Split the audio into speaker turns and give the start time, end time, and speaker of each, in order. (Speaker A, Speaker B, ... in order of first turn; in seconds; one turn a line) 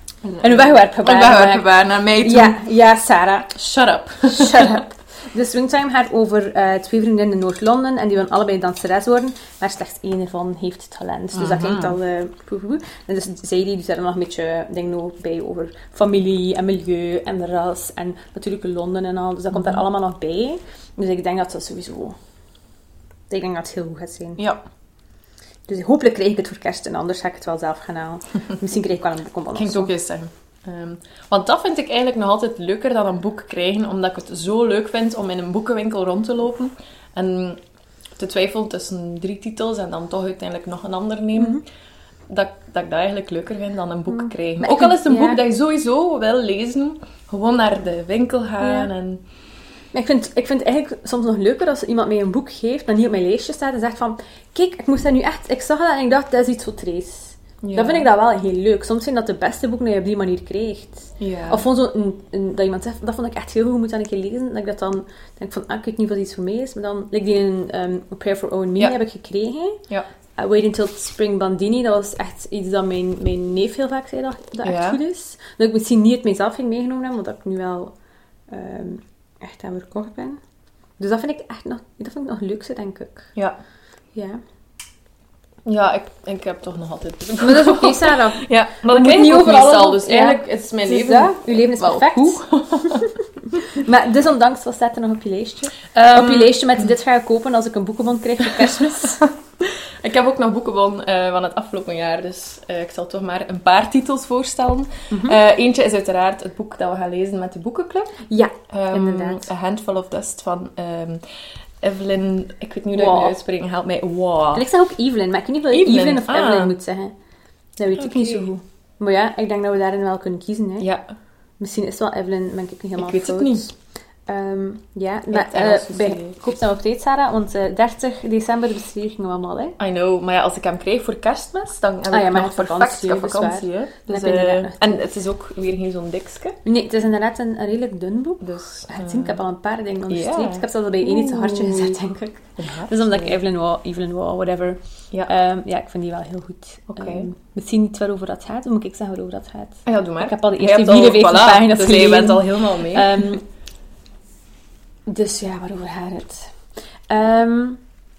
Speaker A: 0.2-2.6
Speaker B: 0.4-3.6
Speaker A: 3.5-4.8
Speaker B: 4.2-22.1
Speaker A: 11.3-12.0
Speaker A: 19.5-19.8
Speaker B: 23.3-24.4
Speaker A: 24.4-24.6
Speaker B: 25.7-29.9
Speaker A: 29.5-37.6
Speaker A: 38.1-41.6
Speaker B: 41.4-41.6
Speaker A: 42.3-49.2
Speaker B: 44.1-45.4
Speaker B: 48.6-48.9
Speaker B: 49.9-69.8
Speaker A: 57.6-58.1
Speaker A: 61.2-61.6
Speaker B: 70.4-77.9
Speaker A: 74.6-75.0
Speaker B: 78.5-80.4
Speaker B: 81.0-83.3
Speaker B: 84.1-84.4
Speaker A: 85.6-93.1
Speaker B: 87.4-93.1
Speaker B: 93.6-99.2
Speaker A: 95.9-96.5
Speaker A: 99.6-114.7
Speaker B: 105.1-105.4
Speaker B: 108.3-109.5
Speaker B: 112.9-113.4
Speaker B: 114.5-117.1
Speaker A: 115.7-116.8
Speaker B: 117.8-120.9
Speaker A: 117.9-118.5
Speaker A: 120.8-121.1
Speaker B: 121.6-129.8
Speaker A: 123.0-123.7
Speaker A: 125.3-126.6
Speaker A: 129.8-136.6
Speaker B: 132.1-135.0
Speaker B: 136.6-153.4
Speaker A: 138.4-139.4
Speaker A: 140.1-142.0
Speaker A: 142.6-143.4
Speaker A: 146.9-147.3
Speaker A: 149.9-153.3
Speaker B: 155.1-157.8